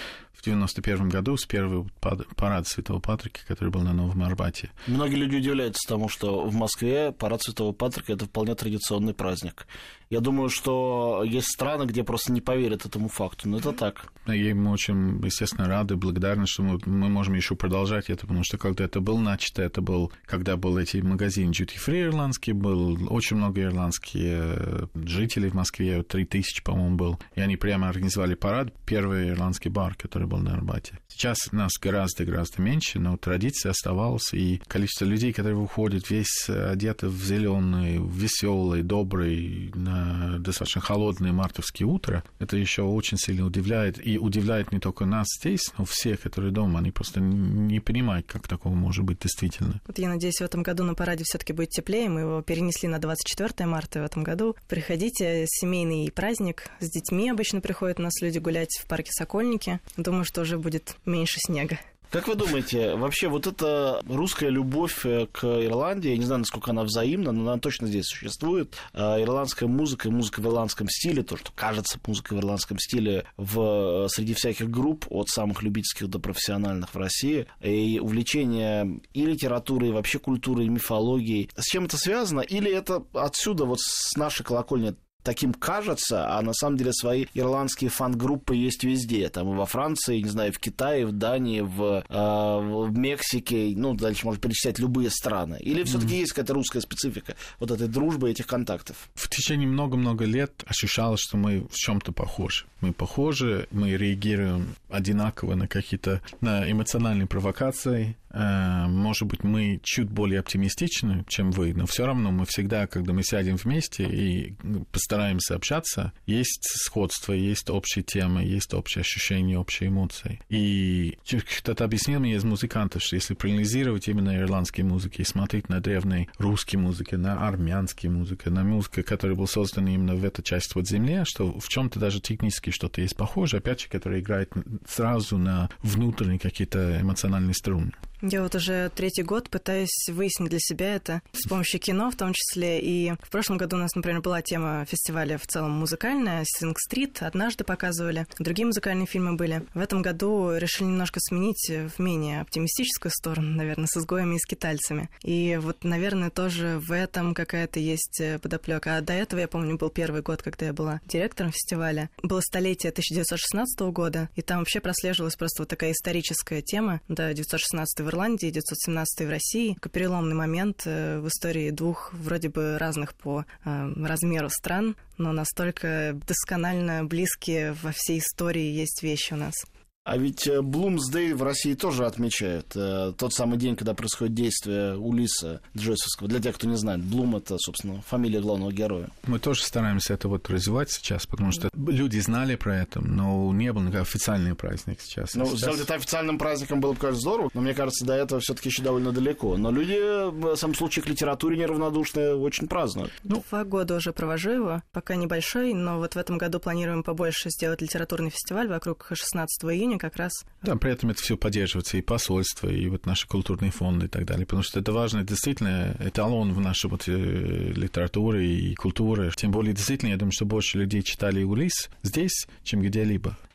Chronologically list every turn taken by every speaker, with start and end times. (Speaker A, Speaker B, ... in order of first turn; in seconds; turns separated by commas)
Speaker A: 0.3-4.7, Speaker B: 4.8-14.1, Speaker A: 14.2-49.8, Speaker C: 49.9-61.8, Speaker B: 62.1-99.1, Speaker A: 95.8-96.2, Speaker A: 99.2-137.9, Speaker C: 138.2-179.6, Speaker B: 180.1-189.1, Speaker A: 189.2-195.8, Speaker B: 195.3-203.1, Speaker C: 203.2-210.5, Speaker A: 210.6-223.4